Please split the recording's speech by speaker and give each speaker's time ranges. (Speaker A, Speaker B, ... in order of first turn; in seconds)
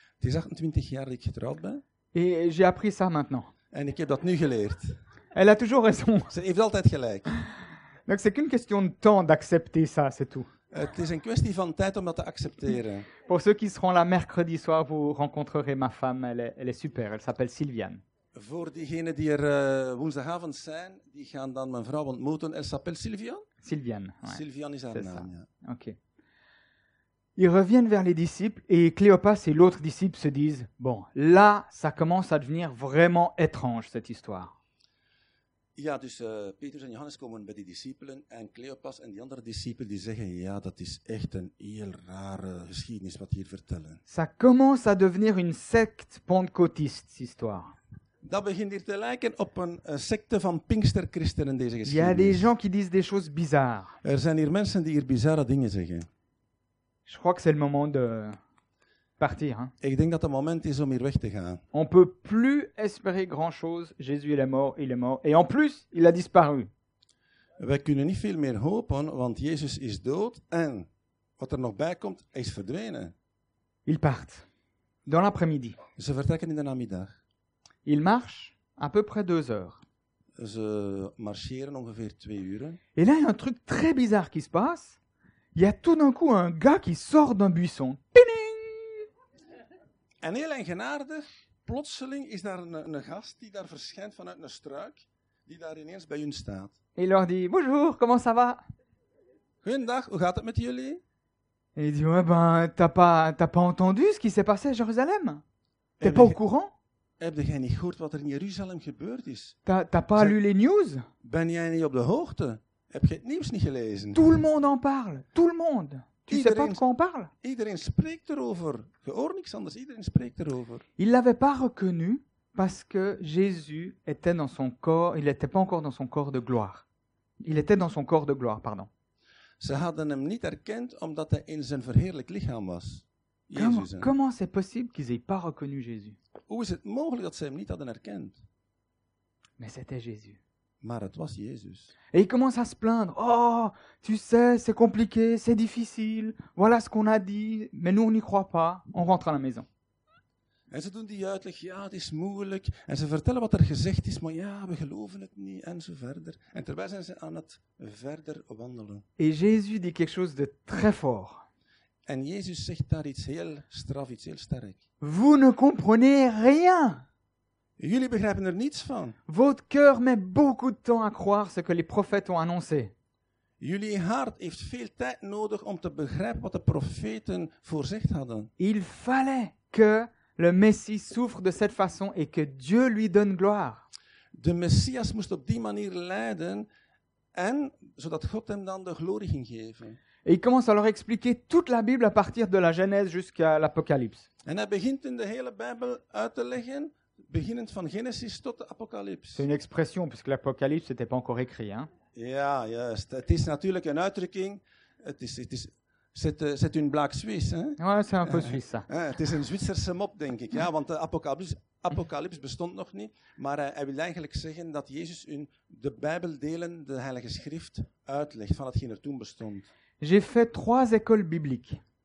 Speaker A: 0.2-1.8, 3.7-5.0, 6.3-7.3, 10.7-13.1, 18.3-23.4, 24.3-25.5, 35.8-44.0, 48.2-52.5, 54.0-56.1, 59.8-61.6, 67.6-70.9, 71.4-73.1, 76.0-77.2, 80.4-82.8, 90.2-96.7, 99.6-101.0, 106.0-106.4, 107.2-109.6, 111.2-114.4, 116.3-116.8, 117.4-120.8, 129.6-134.1, 136.5-138.4, 140.8-141.9, 150.7-159.0, 162.1-164.8, 167.8-169.2, 173.6-178.5, 184.3-186.7, 187.3-190.0, 194.4-199.4, 202.1-219.7
Speaker B: 2.1-3.5, 5.3-6.3, 8.1-10.5, 13.2-18.0, 23.6-24.4, 24.9-26.0, 27.4-34.5, 44.1-47.7, 51.8-54.0, 57.0-58.4, 59.2-59.7, 61.7-66.7, 73.8-74.4, 75.0-75.8, 77.8-79.8, 83.0-85.0, 85.5-89.0, 97.0-98.6, 101.8-105.4, 106.0-106.7, 109.6-111.0, 114.1-117.3, 121.0-126.8, 127.4-128.9, 133.5-136.2, 139.6-140.4, 142.1-149.7, 159.2-161.4, 165.0-167.0, 169.3-172.9, 178.6-183.8, 190.2-194.3, 199.3-201.9, 207.8-208.9, 220.0-221.8